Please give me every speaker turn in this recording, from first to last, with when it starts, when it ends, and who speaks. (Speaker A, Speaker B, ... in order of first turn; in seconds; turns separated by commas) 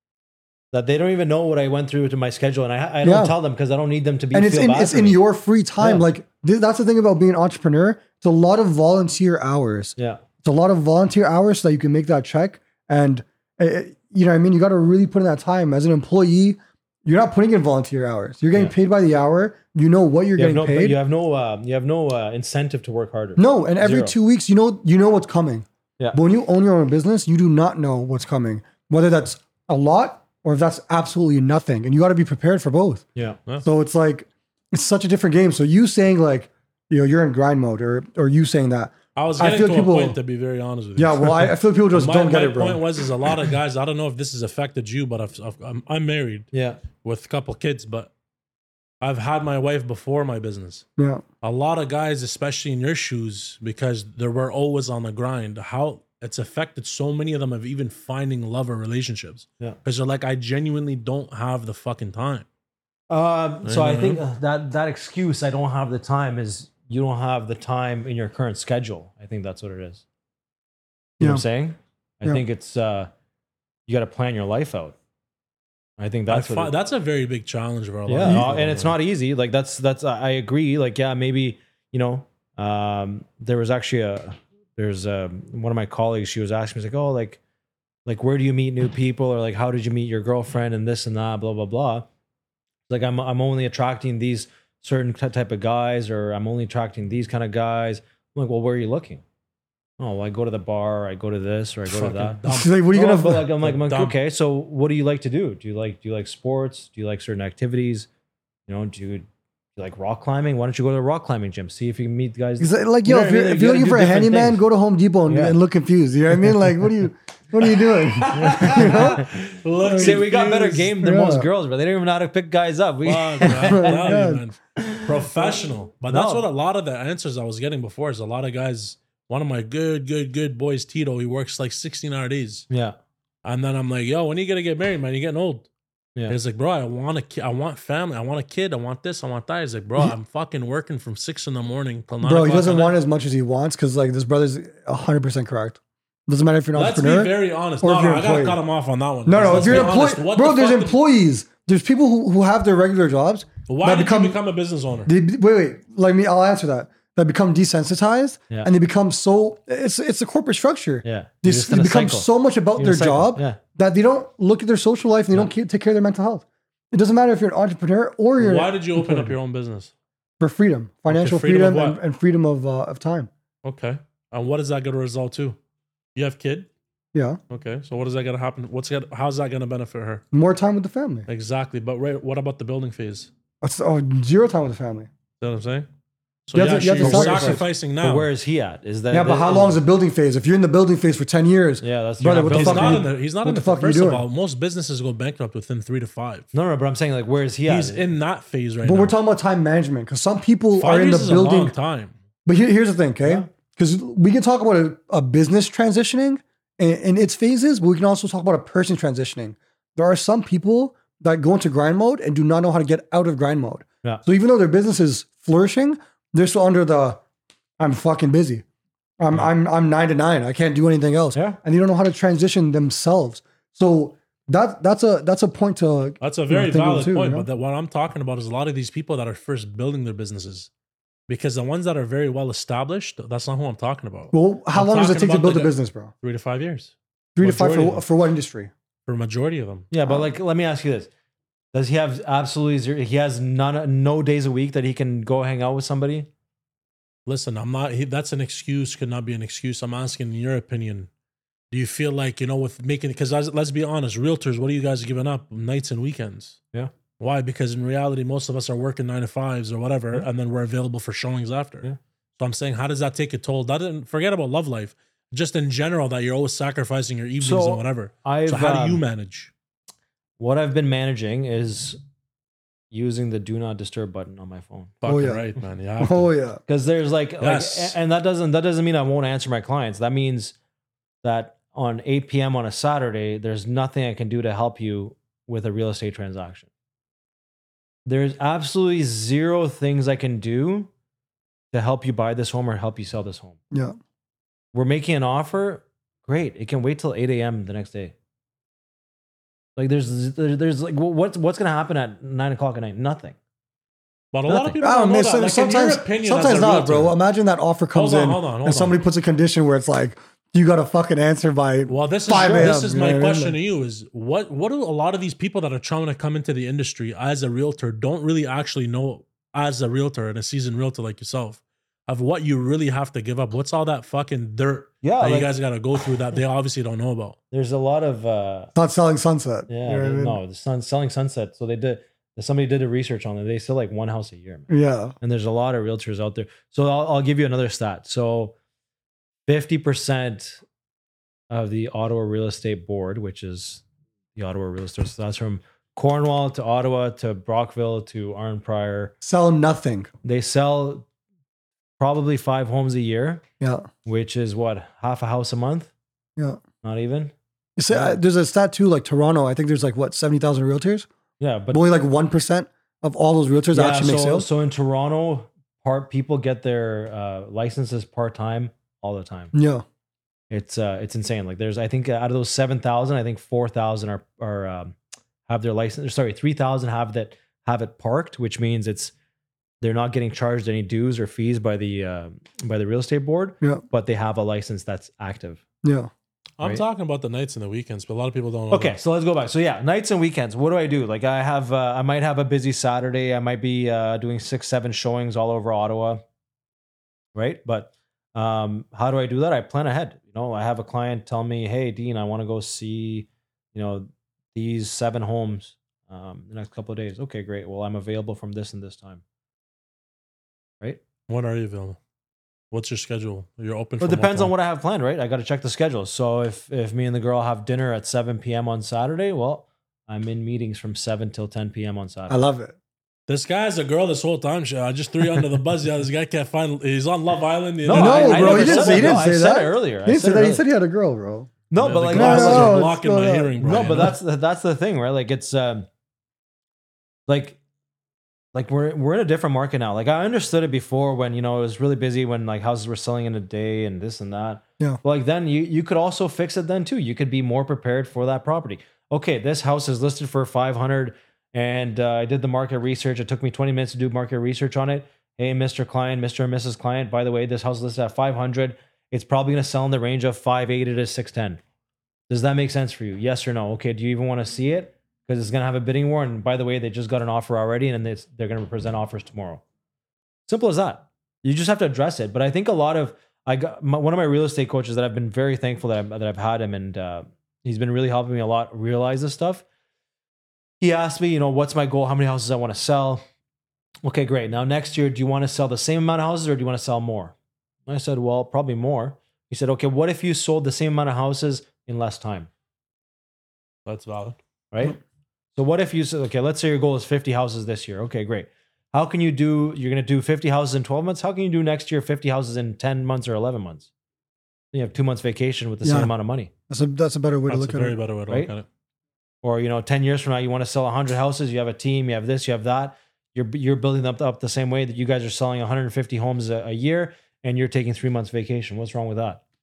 Speaker A: 0.7-5.2, Speaker B: 3.0-3.3, Speaker B: 4.3-21.0, Speaker A: 5.8-6.0, Speaker A: 10.0-10.2, Speaker A: 20.4-24.1, Speaker B: 23.4-33.0, Speaker B: 33.6-40.2, Speaker C: 39.1-46.5, Speaker B: 41.0-42.8, Speaker A: 46.5-46.8, Speaker C: 47.0-48.1, Speaker C: 49.0-50.8, Speaker B: 51.0-51.2, Speaker C: 51.4-62.5, Speaker A: 63.1-70.0, Speaker C: 63.6-64.2, Speaker A: 71.2-73.1, Speaker A: 73.9-74.9, Speaker A: 76.0-76.7, Speaker C: 76.3-79.0, Speaker A: 78.1-87.4, Speaker B: 78.2-78.5, Speaker A: 88.0-92.1, Speaker A: 92.9-99.2, Speaker A: 100.0-108.1, Speaker C: 101.8-102.7, Speaker B: 102.5-103.5, Speaker C: 103.6-104.1, Speaker A: 108.7-114.6, Speaker B: 112.6-119.2, Speaker A: 115.3-115.6, Speaker A: 118.2-124.1, Speaker C: 118.3-120.9, Speaker B: 119.8-120.2, Speaker B: 121.0-121.5, Speaker C: 123.0-132.7, Speaker B: 123.5-124.4, Speaker A: 124.8-126.5, Speaker A: 132.7-133.0, Speaker C: 133.4-135.7, Speaker C: 136.3-142.9, Speaker B: 142.2-148.6, Speaker C: 146.7-150.9, Speaker B: 149.2-154.4, Speaker C: 153.7-155.1, Speaker B: 155.1-169.3, Speaker A: 161.0-163.6, Speaker C: 168.4-169.9, Speaker B: 170.4-173.3, Speaker C: 171.1-172.0, Speaker C: 173.6-175.6, Speaker C: 176.1-176.7, Speaker B: 177.1-177.4, Speaker C: 177.5-180.2, Speaker B: 180.3-181.3, Speaker C: 181.3-183.3, Speaker B: 183.6-185.1, Speaker C: 185.4-185.9, Speaker C: 186.5-188.3, Speaker B: 186.5-187.6, Speaker A: 186.7-189.8, Speaker B: 189.1-194.2, Speaker A: 191.8-193.0, Speaker C: 192.5-196.5, Speaker A: 196.5-198.1, Speaker C: 197.7-199.1, Speaker B: 198.8-201.7, Speaker C: 200.7-202.1, Speaker B: 202.4-217.2, Speaker B: 217.8-218.6, Speaker B: 219.2-227.4, Speaker C: 226.2-230.7, Speaker C: 231.3-238.0, Speaker B: 234.3-236.1, Speaker B: 237.3-238.7, Speaker C: 239.1-239.9, Speaker A: 239.9-241.1, Speaker A: 241.7-246.3, Speaker C: 247.2-251.1, Speaker C: 251.7-256.6, Speaker C: 257.2-269.5, Speaker A: 267.4-269.0, Speaker A: 270.4-272.0, Speaker A: 272.9-275.0, Speaker C: 275.0-276.3, Speaker B: 275.1-275.4, Speaker B: 276.0-276.6, Speaker A: 276.7-280.5, Speaker C: 277.4-277.9, Speaker A: 281.2-286.7, Speaker A: 288.1-290.9, Speaker A: 291.7-293.6, Speaker B: 293.7-294.0, Speaker A: 294.7-298.1, Speaker A: 299.8-303.4, Speaker C: 304.3-307.1, Speaker A: 304.5-304.8, Speaker B: 304.8-313.5, Speaker C: 307.9-309.0, Speaker C: 311.9-327.4, Speaker A: 325.0-325.5, Speaker A: 327.5-328.7, Speaker B: 328.7-330.4, Speaker A: 329.7-338.5, Speaker B: 334.7-335.1, Speaker A: 339.5-340.6, Speaker A: 341.5-343.8, Speaker A: 344.4-349.1, Speaker B: 349.2-350.1, Speaker A: 350.2-351.1, Speaker A: 352.0-353.4, Speaker B: 353.6-353.9, Speaker A: 354.0-355.9, Speaker A: 356.8-357.3, Speaker B: 357.8-361.1, Speaker A: 357.9-358.2, Speaker A: 361.4-361.8, Speaker B: 361.7-364.5, Speaker A: 363.7-369.5, Speaker B: 369.5-369.8, Speaker A: 370.5-374.9, Speaker A: 375.5-379.1, Speaker A: 379.8-385.6, Speaker B: 385.8-386.1, Speaker C: 386.6-389.0, Speaker A: 388.7-396.2, Speaker A: 397.3-409.2, Speaker C: 411.3-412.0, Speaker C: 412.7-414.5, Speaker A: 414.0-422.4, Speaker B: 422.3-422.8, Speaker C: 423.3-429.2, Speaker A: 427.8-430.6, Speaker B: 427.9-431.5, Speaker A: 431.7-432.9, Speaker C: 431.8-434.2, Speaker B: 432.1-433.5, Speaker A: 433.6-435.9, Speaker A: 437.3-437.6, Speaker A: 438.5-461.6, Speaker A: 462.3-469.6, Speaker A: 470.5-479.6, Speaker A: 480.8-483.2, Speaker A: 484.0-487.3, Speaker A: 487.9-492.5, Speaker C: 493.9-494.4, Speaker A: 494.7-495.0, Speaker A: 495.5-503.9, Speaker A: 504.7-506.5, Speaker B: 505.8-506.1, Speaker B: 506.7-508.0, Speaker C: 507.5-508.6, Speaker A: 509.4-519.4